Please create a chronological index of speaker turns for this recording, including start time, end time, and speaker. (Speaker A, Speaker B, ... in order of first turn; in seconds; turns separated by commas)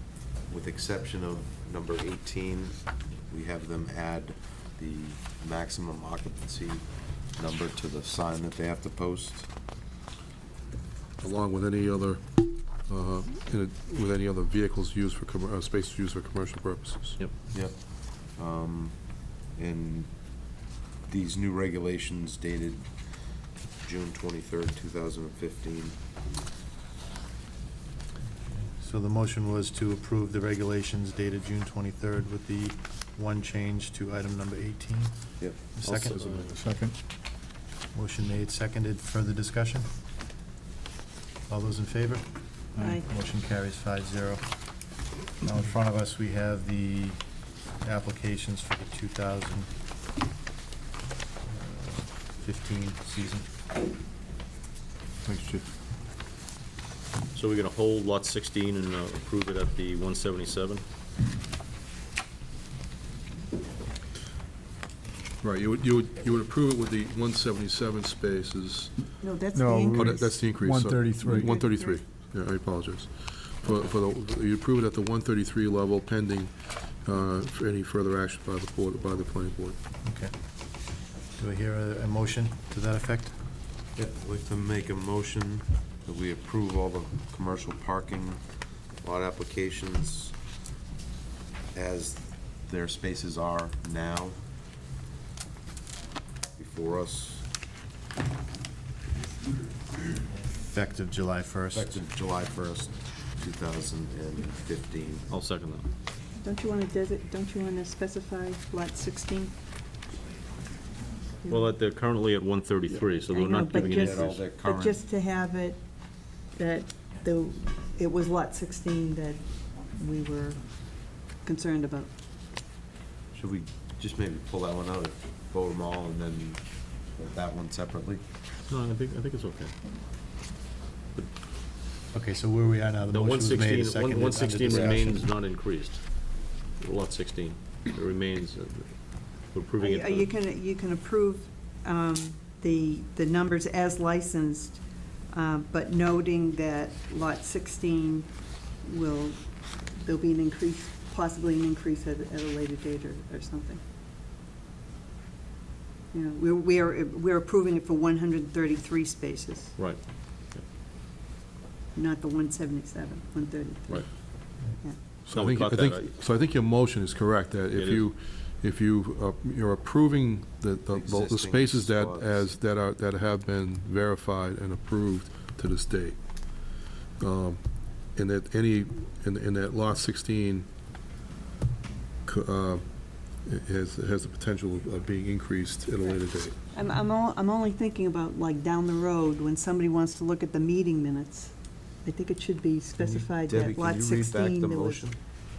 Speaker A: 0.5-9.5, Speaker B: 11.2-17.2, Speaker A: 17.5-20.1, Speaker A: 21.1-22.9, Speaker A: 23.8-26.0, Speaker C: 28.5-36.4, Speaker B: 35.9-36.7, Speaker D: 36.0-36.5, Speaker E: 36.6-37.0, Speaker C: 37.9-39.9, Speaker C: 41.5-44.4, Speaker F: 42.8-43.0, Speaker C: 45.4-49.7, Speaker C: 51.5-53.5, Speaker B: 55.2-55.7, Speaker D: 57.3-60.8, Speaker B: 65.4-69.1, Speaker F: 69.2-70.2, Speaker E: 69.5-71.5, Speaker B: 69.9-79.8, Speaker F: 71.2-71.9, Speaker C: 80.0-83.4, Speaker A: 84.0-88.4, Speaker A: 89.0-90.4, Speaker A: 91.7-94.4, Speaker A: 96.6-97.5, Speaker C: 100.6-101.9, Speaker A: 101.7-105.3, Speaker D: 105.3-105.9, Speaker F: 106.4-109.5, Speaker F: 111.4-111.7, Speaker D: 111.5-114.5, Speaker F: 113.3-115.8, Speaker A: 113.8-115.0, Speaker F: 116.5-122.1, Speaker A: 123.3-128.2, Speaker D: 128.7-129.7, Speaker C: 132.1-135.3, Speaker D: 133.1-136.1, Speaker D: 136.8-140.3, Speaker F: 139.8-148.3, Speaker F: 148.8-149.4, Speaker F: 149.9-153.8, Speaker F: 156.1-159.7, Speaker D: 159.8-160.7, Speaker F: 161.9-165.0, Speaker B: 165.3-176.2, Speaker D: 165.3-166.1, Speaker D: 167.7-168.1, Speaker A: 170.9-172.5, Speaker B: 177.2-180.7, Speaker B: 182.3-186.6, Speaker F: 186.7-195.0, Speaker A: 193.3-195.2